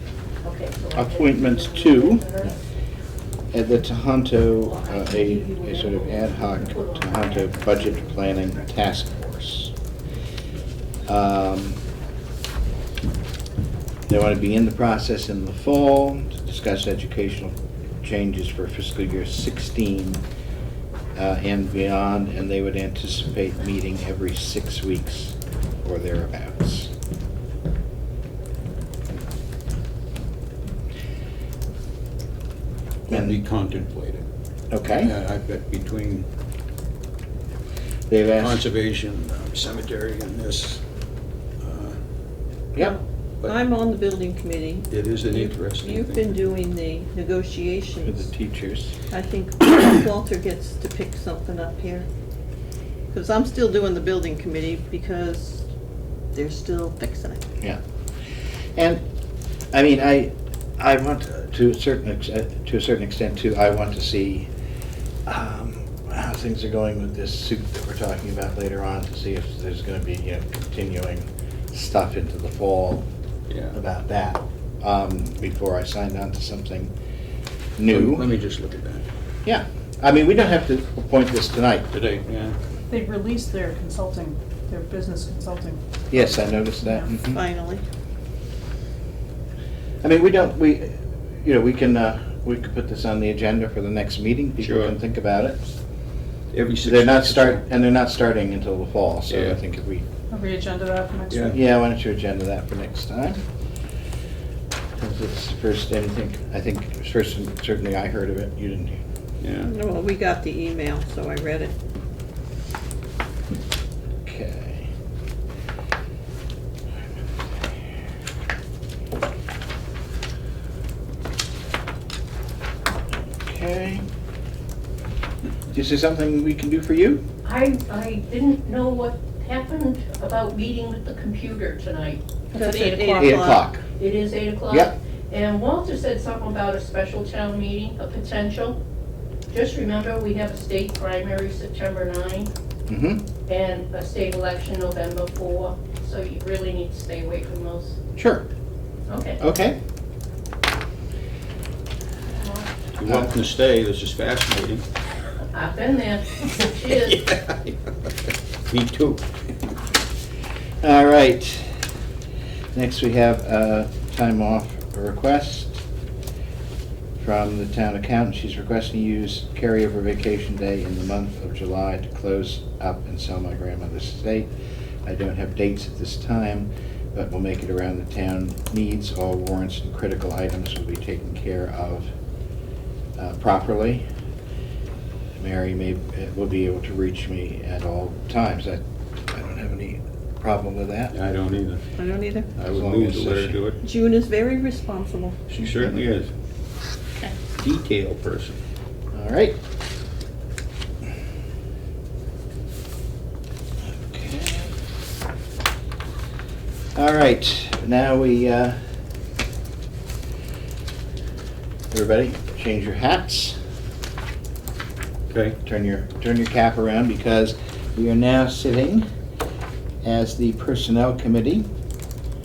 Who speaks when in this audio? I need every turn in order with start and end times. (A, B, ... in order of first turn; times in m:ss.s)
0:00.4-0:02.6 A
0:01.0-0:02.3 B
0:03.5-0:09.7 B
0:04.7-0:08.7 A
0:11.1-0:11.8 B
0:14.1-0:20.2 B
0:21.2-0:26.9 B
0:33.1-0:34.2 C
0:33.1-0:33.4 B
0:34.7-0:35.2 B
0:35.0-0:36.3 C
0:38.1-0:38.7 B
0:38.4-0:40.8 C
0:41.6-0:42.0 C
0:43.5-0:48.2 D
0:44.9-0:46.5 C
0:48.0-0:49.0 B
0:49.1-0:52.1 D
0:53.1-0:55.6 D
0:56.3-0:57.4 D
0:58.8-0:59.0 B
0:59.7-1:04.5 B
1:05.3-1:13.1 B
1:13.5-1:13.8 C
1:13.7-1:16.9 B
1:17.8-1:18.3 B
1:17.9-1:19.0 C
1:19.4-1:21.9 B
1:21.9-1:22.6 C
1:22.9-1:27.1 E
1:26.1-1:27.4 B
1:27.3-1:27.8 D
1:30.0-1:35.6 B
1:34.6-1:35.0 C
1:36.5-1:37.6 C
1:36.8-1:40.0 B
1:39.3-1:39.6 C
1:40.3-1:41.6 E
1:41.3-1:41.6 C
1:41.5-1:43.4 B
1:45.0-1:49.0 B
1:49.4-1:49.7 C
1:49.7-1:51.7 D
1:54.2-1:54.9 B
2:03.4-2:04.0 B
2:05.7-2:07.2 B
2:07.4-2:18.8 A
2:12.5-2:13.6 D
2:13.2-2:13.8 B
2:14.7-2:15.0 B
2:19.5-2:22.5 A
2:22.9-2:23.2 B
2:23.5-2:28.0 A
2:28.2-2:28.5 B
2:29.1-2:29.4 A
2:29.4-2:29.8 B
2:32.3-2:32.7 A
2:33.0-2:34.8 C
2:33.0-2:33.3 B
2:35.4-2:37.3 A
2:36.9-2:37.8 C
2:38.7-2:39.2 C
2:40.8-2:41.7 B
2:42.7-2:45.8 B
2:47.2-2:54.5 B
2:55.0-3:02.1 B
3:03.2-3:04.0 B
3:05.4-3:11.2 B
3:11.1-3:11.8 C
3:12.0-3:12.5 D
3:12.5-3:13.8 C
3:12.6-3:13.7 B
3:13.8-3:15.4 D
3:15.5-3:16.3 C
3:15.6-3:15.9 B
3:17.6-3:18.6 C
3:19.1-3:19.6 B
3:23.9-3:24.7 B
3:27.0-3:28.8 B
3:31.9-3:33.6 B
3:35.3-3:35.6 C
3:35.6-3:39.0 B
3:40.0-3:41.7 B